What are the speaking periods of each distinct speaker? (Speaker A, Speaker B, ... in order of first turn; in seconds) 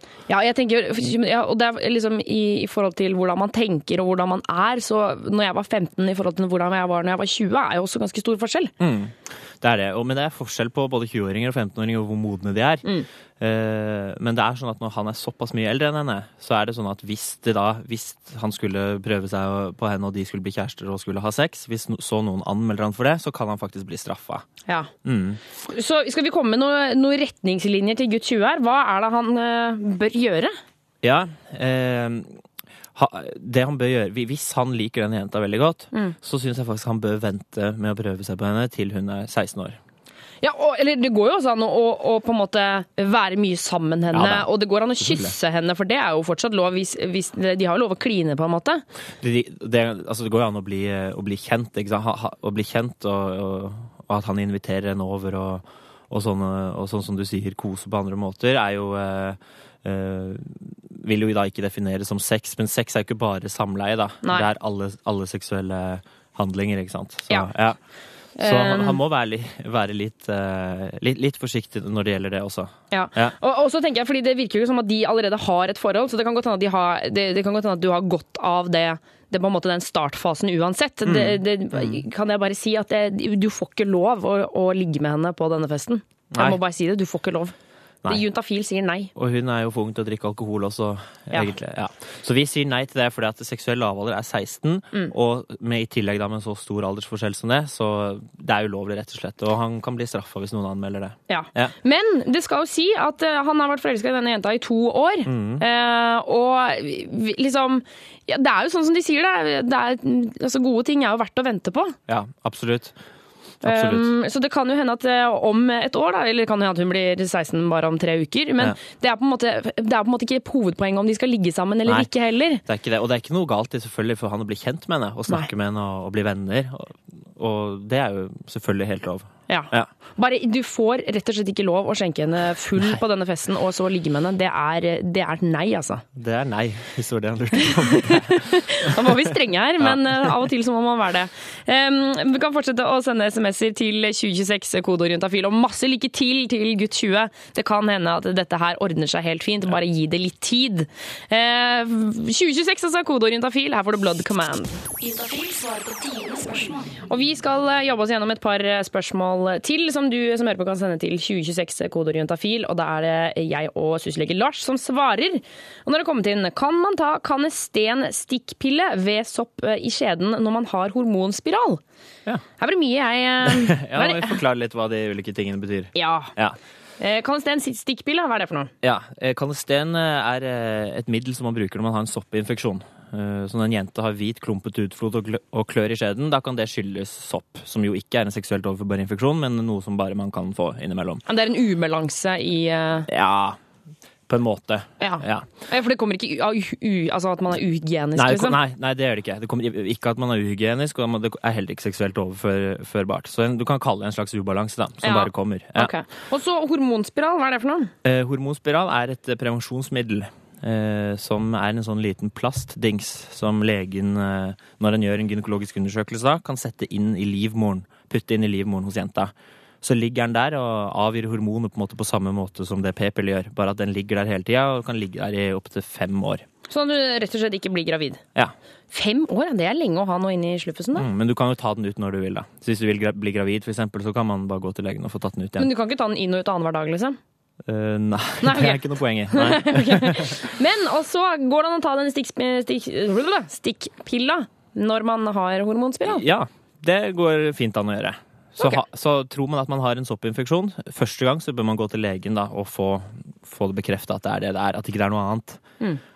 Speaker A: 0.3-8.7, 25.6-30.5, 40.4-48.8, 64.2-64.5, 68.4-69.0, 72.9-87.5, 88.1-89.1, 101.3-112.0, 113.6-122.6, 129.5-136.0, 137.9-154.8, 157.1-171.8, 172.6-174.3, 175.9-176.3, 177.0-178.7, 191.3-193.1, 195.0-198.6, 205.0-207.9, 226.7-228.2, 228.9-231.1, 235.6-237.2, 238.4-246.2
Speaker B: 8.8-12.8, 13.4-24.4, 25.0-25.4, 31.0-32.4, 32.9-39.8, 44.1-45.3, 49.2-67.8, 68.4-73.3, 81.0-82.0, 86.3-86.6, 89.1-101.7, 105.2-105.6, 112.1-113.0, 113.6-114.1, 122.6-129.9, 136.2-139.2, 139.8-140.4, 173.5-176.6, 178.8-191.2, 193.1-193.6, 194.3-195.5, 198.2-205.9, 208.0-226.4, 230.9-235.7, 237.7-240.4, 246.0-255.6
Speaker C: 155.0-156.9